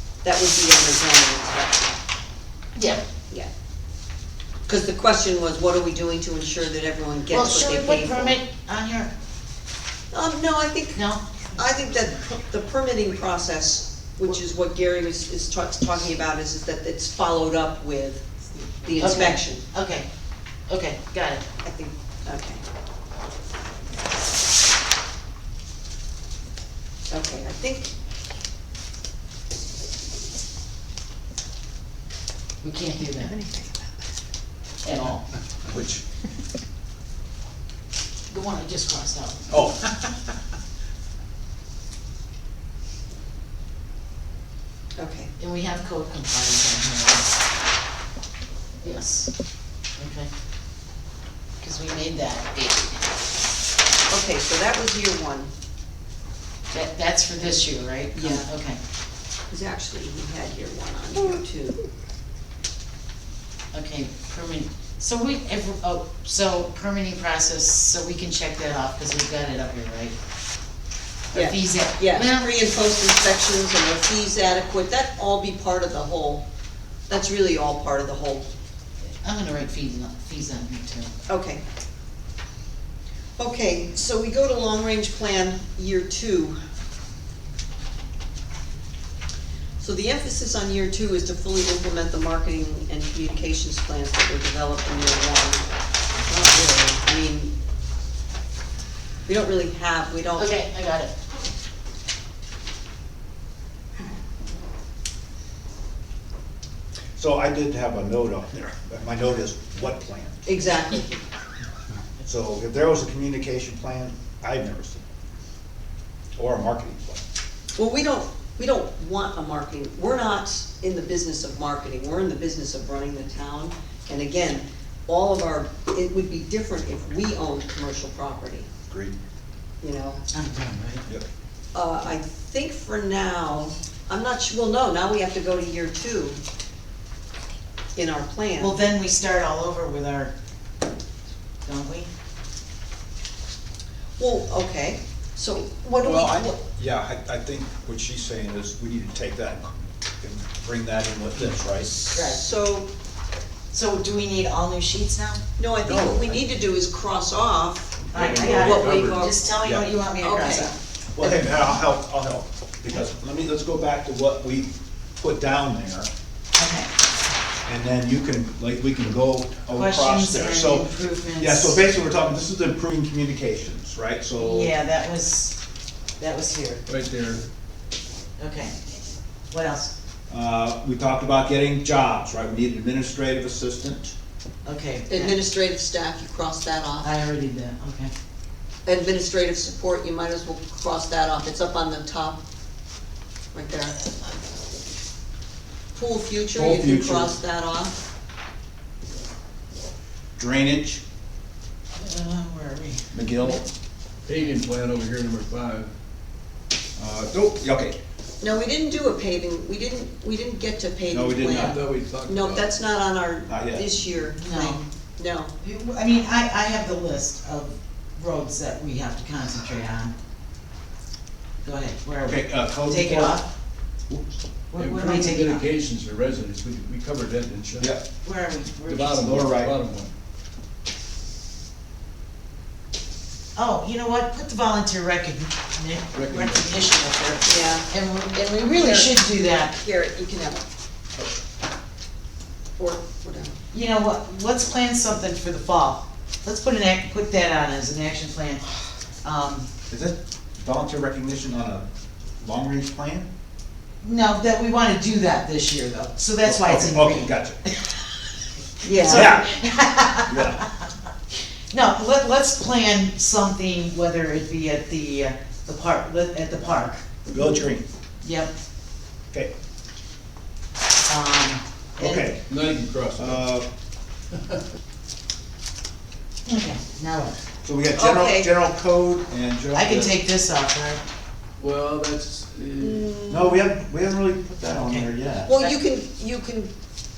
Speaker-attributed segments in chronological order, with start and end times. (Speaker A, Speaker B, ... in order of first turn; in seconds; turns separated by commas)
Speaker A: 0.2-2.0, Speaker B: 2.8-3.0, Speaker A: 4.7-8.4, Speaker B: 7.3-9.1, Speaker A: 10.1-11.0, Speaker B: 10.9-11.6, Speaker A: 11.5-19.6, Speaker B: 18.9-20.1, Speaker B: 20.7-21.4, Speaker A: 21.6-22.6, Speaker A: 27.1-27.9, Speaker B: 32.6-33.4, Speaker A: 33.4-33.7, Speaker B: 34.8-35.2, Speaker C: 35.6-36.0, Speaker B: 38.3-39.7, Speaker C: 39.5-40.3, Speaker A: 45.0-45.3, Speaker B: 45.4-47.3, Speaker B: 48.8-49.3, Speaker B: 50.0-50.3, Speaker B: 51.6-53.1, Speaker A: 54.1-55.5, Speaker B: 56.7-58.8, Speaker A: 58.1-58.5, Speaker A: 59.5-61.9, Speaker B: 63.7-70.2, Speaker B: 71.3-72.5, Speaker A: 71.3-76.4, Speaker A: 77.1-78.5, Speaker B: 79.2-81.1, Speaker A: 81.3-81.6, Speaker A: 83.4-86.6, Speaker A: 89.8-95.6, Speaker A: 96.2-97.5, Speaker A: 99.2-100.6, Speaker B: 100.3-101.1, Speaker C: 107.2-110.4, Speaker A: 110.5-111.2, Speaker C: 112.2-115.1, Speaker C: 116.3-117.2, Speaker A: 117.8-128.7, Speaker C: 128.9-129.1, Speaker A: 129.8-130.2, Speaker B: 130.3-131.1, Speaker A: 131.7-136.4, Speaker A: 137.9-138.8, Speaker B: 138.6-140.3, Speaker B: 141.6-142.1, Speaker A: 144.2-146.6, Speaker C: 146.0-152.0, Speaker A: 151.8-152.9, Speaker B: 152.1-152.4, Speaker B: 153.7-155.4, Speaker A: 155.6-159.4, Speaker C: 155.8-156.4, Speaker D: 158.1-159.3, Speaker B: 158.1-160.8, Speaker C: 159.6-159.9, Speaker A: 160.2-160.7, Speaker C: 161.1-166.1, Speaker B: 166.6-166.9, Speaker C: 167.7-170.8, Speaker B: 169.7-171.8, Speaker C: 171.3-174.7, Speaker B: 174.4-175.6, Speaker B: 176.2-176.8, Speaker D: 176.9-177.4, Speaker B: 178.4-178.9, Speaker B: 179.5-179.9, Speaker C: 180.3-184.1, Speaker B: 184.6-185.4, Speaker A: 185.1-187.1, Speaker B: 187.0-188.1, Speaker A: 188.8-192.4, Speaker A: 193.5-194.0, Speaker A: 195.9-197.9, Speaker C: 196.5-197.3, Speaker C: 200.4-201.0, Speaker B: 201.9-203.6, Speaker C: 203.1-203.7, Speaker D: 204.2-205.9, Speaker C: 207.0-207.9, Speaker A: 208.4-215.5, Speaker C: 211.1-211.8, Speaker D: 211.4-212.7, Speaker C: 213.5-213.9, Speaker B: 214.4-214.8, Speaker B: 215.6-220.1, Speaker B: 221.6-223.4, Speaker C: 222.2-223.4, Speaker C: 224.1-224.4, Speaker B: 224.7-225.7, Speaker D: 224.7-227.9, Speaker C: 227.8-228.1, Speaker B: 228.2-229.4, Speaker D: 228.8-230.1, Speaker C: 229.2-229.7, Speaker B: 233.5-239.7, Speaker D: 236.1-236.8, Speaker A: 237.5-237.9, Speaker A: 238.7-239.1, Speaker A: 239.7-240.6, Speaker A: 242.8-243.6, Speaker B: 243.7-248.6, Speaker B: 249.2-249.7, Speaker C: 249.9-251.8, Speaker C: 252.4-253.3, Speaker B: 254.0-257.9, Speaker C: 256.4-257.6, Speaker A: 258.8-259.4, Speaker B: 258.8-260.9, Speaker C: 259.0-259.6, Speaker C: 260.3-260.6, Speaker B: 261.7-267.0, Speaker C: 267.3-267.9, Speaker B: 268.2-268.5, Speaker B: 271.1-272.3, Speaker C: 272.0-272.4, Speaker D: 272.5-273.4, Speaker C: 273.2-273.6, Speaker D: 274.3-274.6, Speaker B: 276.4-277.4, Speaker C: 277.6-280.1, Speaker A: 277.9-278.5, Speaker B: 279.7-281.0, Speaker D: 281.6-283.1, Speaker A: 282.8-283.7, Speaker C: 283.3-285.6, Speaker B: 284.7-285.1, Speaker A: 285.4-286.7